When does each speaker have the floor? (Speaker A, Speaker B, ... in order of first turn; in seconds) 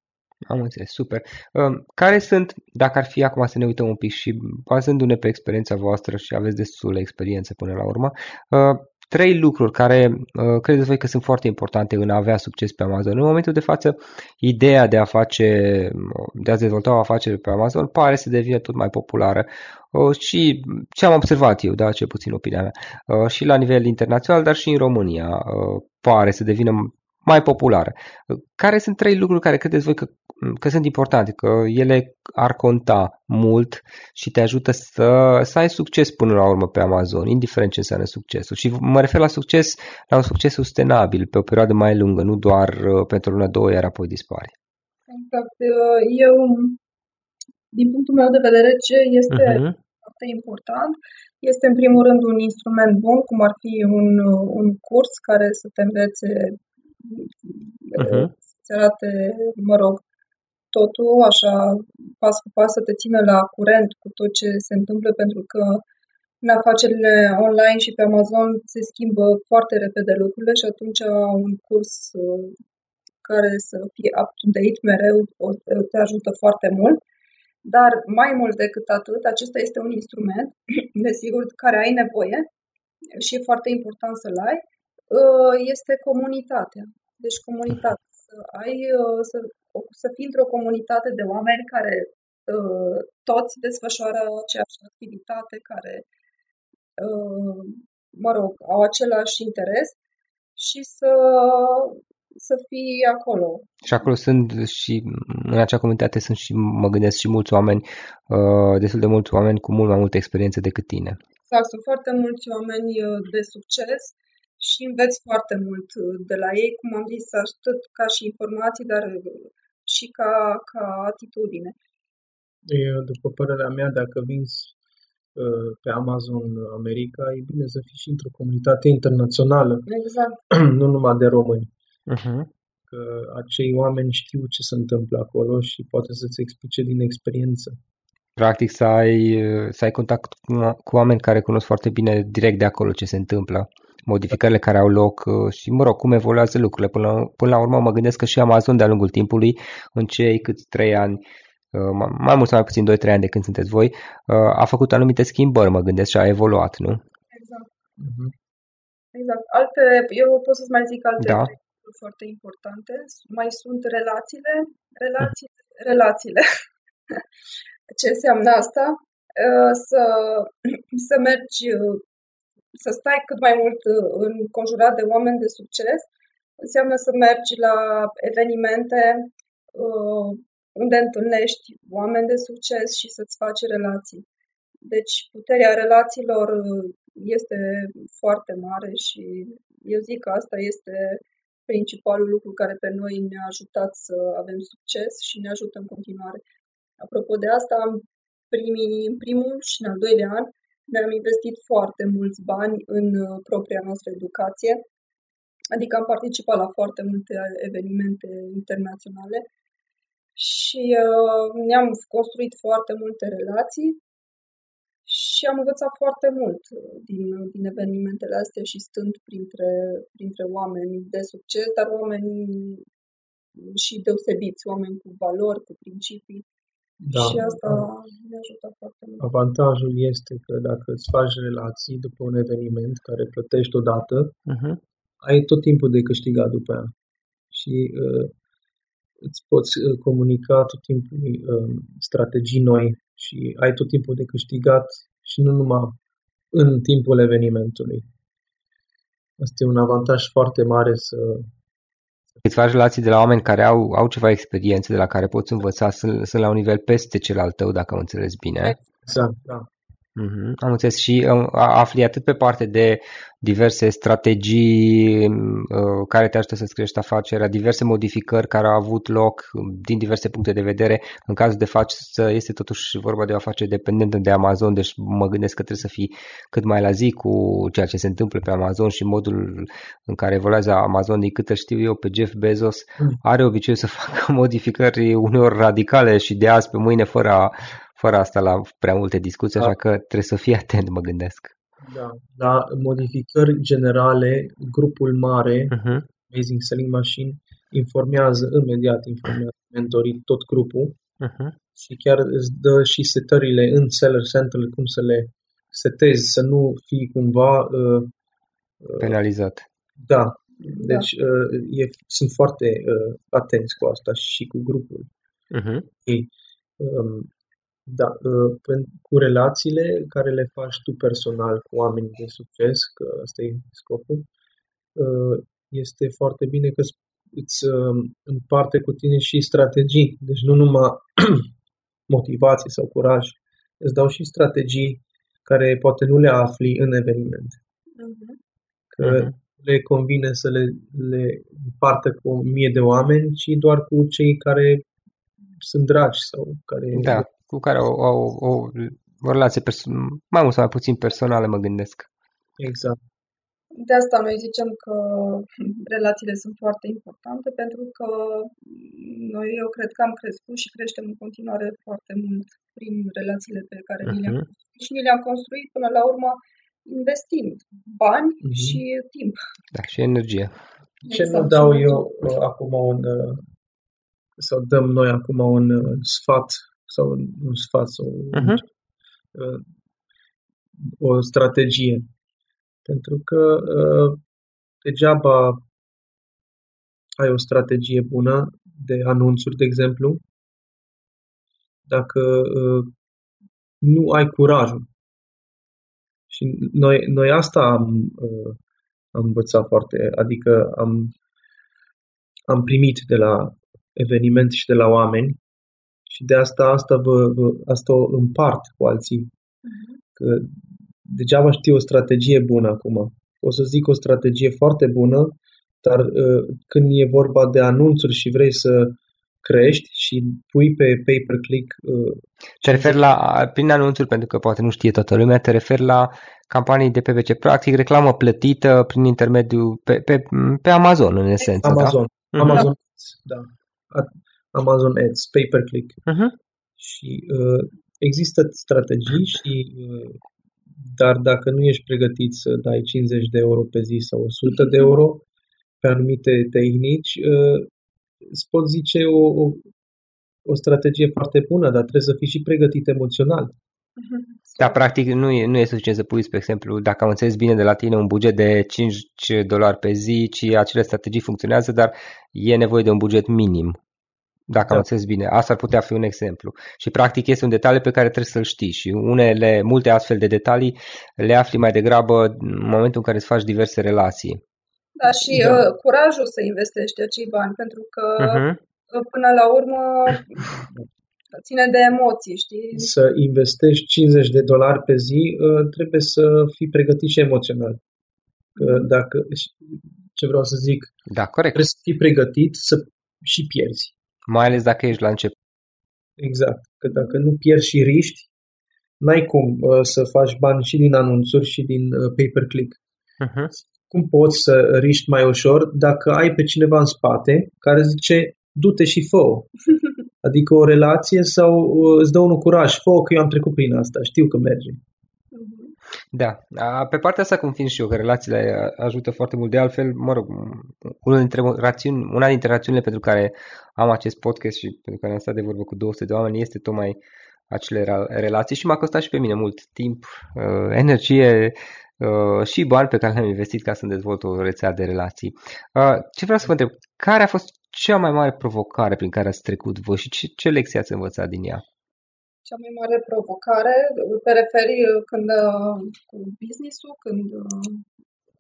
Speaker A: 0.5-44.5, 49.3-49.8, 58.0-58.3, 103.8-111.2, 132.1-132.5, 138.4-151.2, 151.7-157.0, 161.2-161.5, 234.5-234.8, 252.4-258.8, 260.2-291.5, 295.7-296.1, 301.2-301.6, 309.0-309.6, 315.5-315.9, 339.0-339.3, 346.9-352.1, 364.1-364.4, 369.7-370.5, 378.3-378.6, 422.6-432.6, 436.1-436.3, 454.6-463.8, 464.5-474.4, 478.2-478.6, 491.1-491.6, 494.3-495.3, 503.2-503.5, 516.1-527.0, 527.5-541.6
Speaker B: 45.1-46.8, 47.7-60.0, 60.7-65.8, 66.4-72.5, 73.2-77.0, 77.6-82.5, 83.1-96.0, 97.0-100.0, 100.5-103.8, 111.5-121.8, 129.9-130.4, 157.3-157.7, 159.1-166.4, 167.9-172.0, 172.7-184.2, 184.8-196.4, 197.0-204.8, 205.7-209.5, 210.3-214.0, 215.1-222.8, 223.5-226.4, 227.1-229.2, 310.6-311.1, 338.0-338.4, 353.7-369.4, 371.1-372.0, 409.6-410.0, 444.6-444.9, 454.0-454.8, 475.0-480.6, 481.3-482.9, 488.6-488.9, 496.9-497.2, 515.3-515.7, 542.5-547.8
Speaker C: 122.7-124.7, 125.3-129.9, 130.5-131.7, 132.9-137.8, 158.0-158.3, 227.0-227.8, 229.2-234.3, 235.2-236.9, 237.5-238.3, 239.2-246.0, 246.5-248.1, 249.4-251.5, 259.0-259.7, 291.8-301.0, 301.7-308.1, 308.8-309.1, 310.0-315.1, 316.0-317.3, 317.9-324.3, 324.9-331.5, 332.1-337.6, 338.9-344.9, 345.6-347.3, 352.6-353.0, 368.4-368.8, 371.0-373.4, 374.4-378.6, 379.3-379.6, 380.8-382.0, 382.8-384.2, 384.8-385.6, 387.2-390.2, 391.9-392.9, 393.8-394.9, 396.3-398.6, 399.1-401.1, 402.5-405.4, 406.1-409.3, 410.1-423.1, 431.6-436.0, 436.8-440.2, 440.8-445.2, 445.8-447.7, 448.2-449.7, 450.4-453.5, 475.3-475.7, 482.7-487.8, 488.6-490.9, 491.5-493.9, 496.2-498.3, 499.0-502.8, 503.7-509.5, 510.2-514.8